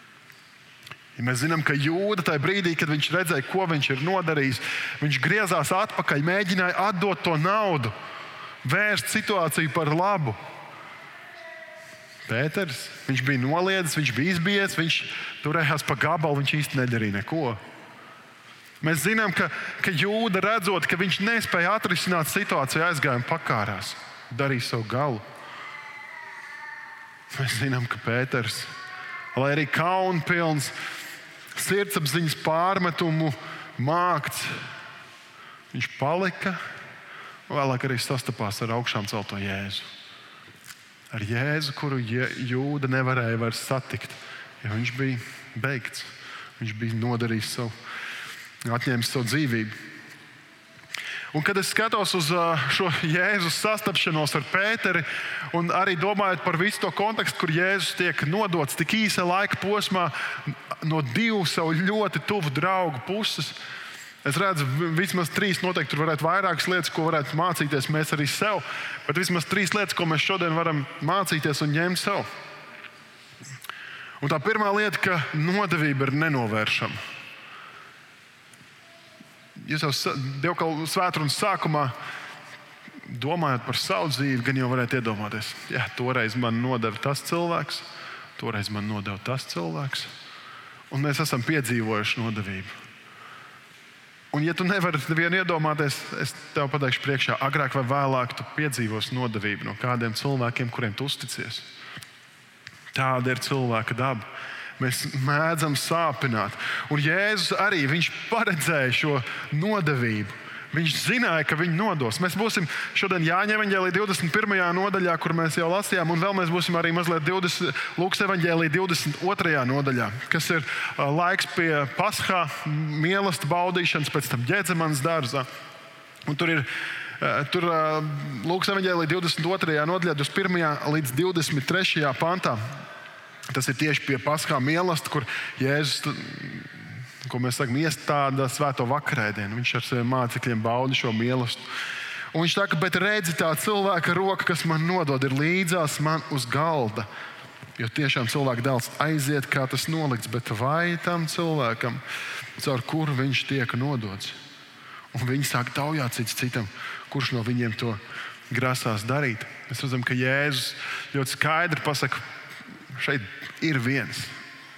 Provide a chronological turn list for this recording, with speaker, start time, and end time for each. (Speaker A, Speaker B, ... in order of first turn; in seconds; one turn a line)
Speaker A: 1.2-7.9
Speaker A: 8.6-10.4
Speaker A: 12.3-17.6
Speaker A: 18.8-25.2
Speaker A: 27.3-28.7
Speaker A: 29.3-30.7
Speaker A: 31.6-34.6
Speaker A: 35.7-36.6
Speaker A: 37.5-39.9
Speaker A: 41.1-47.7
Speaker A: 48.6-49.7
Speaker A: 51.3-63.6
Speaker A: 64.2-72.3
Speaker A: 74.2-77.0
Speaker A: 79.6-81.9
Speaker A: 83.1-90.1
Speaker A: 90.9-92.7
Speaker A: 94.3-101.7
Speaker A: 102.9-104.2
Speaker A: 104.8-125.5
Speaker A: 126.3-126.7
Speaker A: 127.2-132.6
Speaker A: 133.5-141.6
Speaker A: 142.3-147.1
Speaker A: 147.8-152.0
Speaker A: 152.6-154.4
Speaker A: 155.1-162.2
Speaker A: 162.9-164.3